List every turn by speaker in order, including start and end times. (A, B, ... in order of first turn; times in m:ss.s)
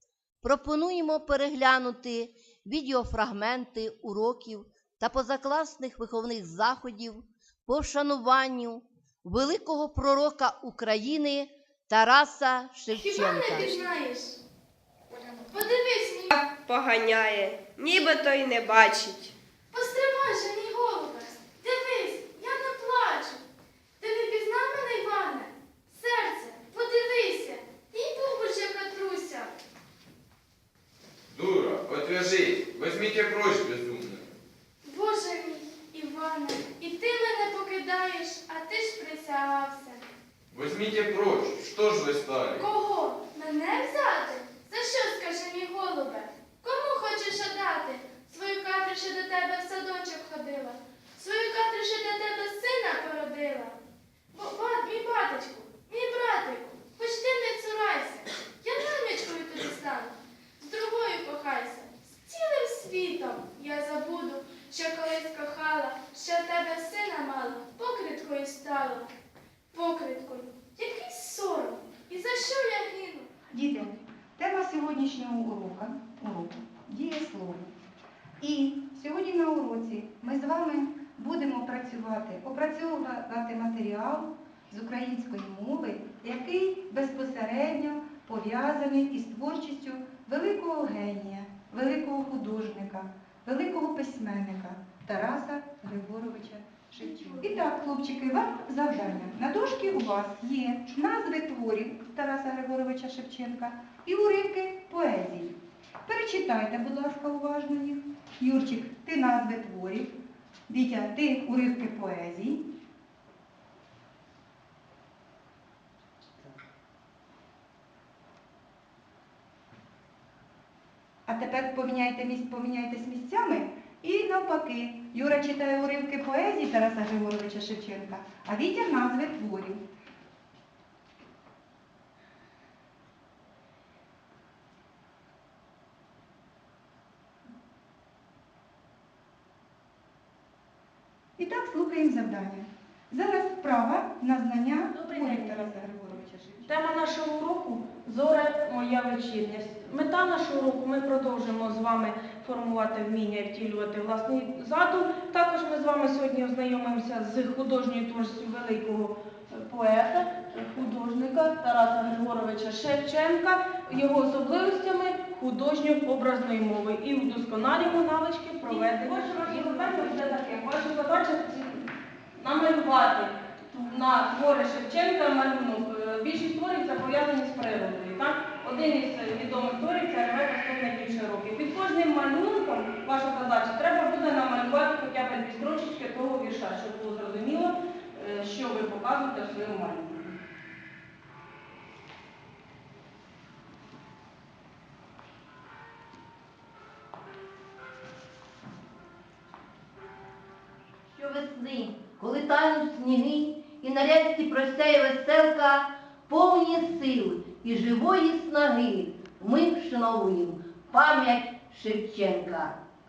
0:00.4-0:13.7 A
0:13.0-0:14.4 B
0:15.5-0:16.3 B
0:16.3-0:19.3 C
0:19.7-0:23.4 B
0:24.0-0:29.5 B
0:31.3-0:34.3 D
0:34.8-0:40.1 B
0:40.5-0:42.6 D
0:42.5-0:53.8 B
0:54.3-1:09.1 B
1:09.7-1:13.3 B
1:13.5-1:17.7 E
1:18.4-1:45.6 E
1:46.1-1:50.2 E
1:50.7-1:52.6 E
2:01.3-2:09.8 E
2:21.4-2:26.8 E
2:24.9-2:25.8 F
2:26.7-2:51.8 F
2:48.6-2:50.4 E
2:52.4-3:10.4 F
3:21.1-3:32.8 A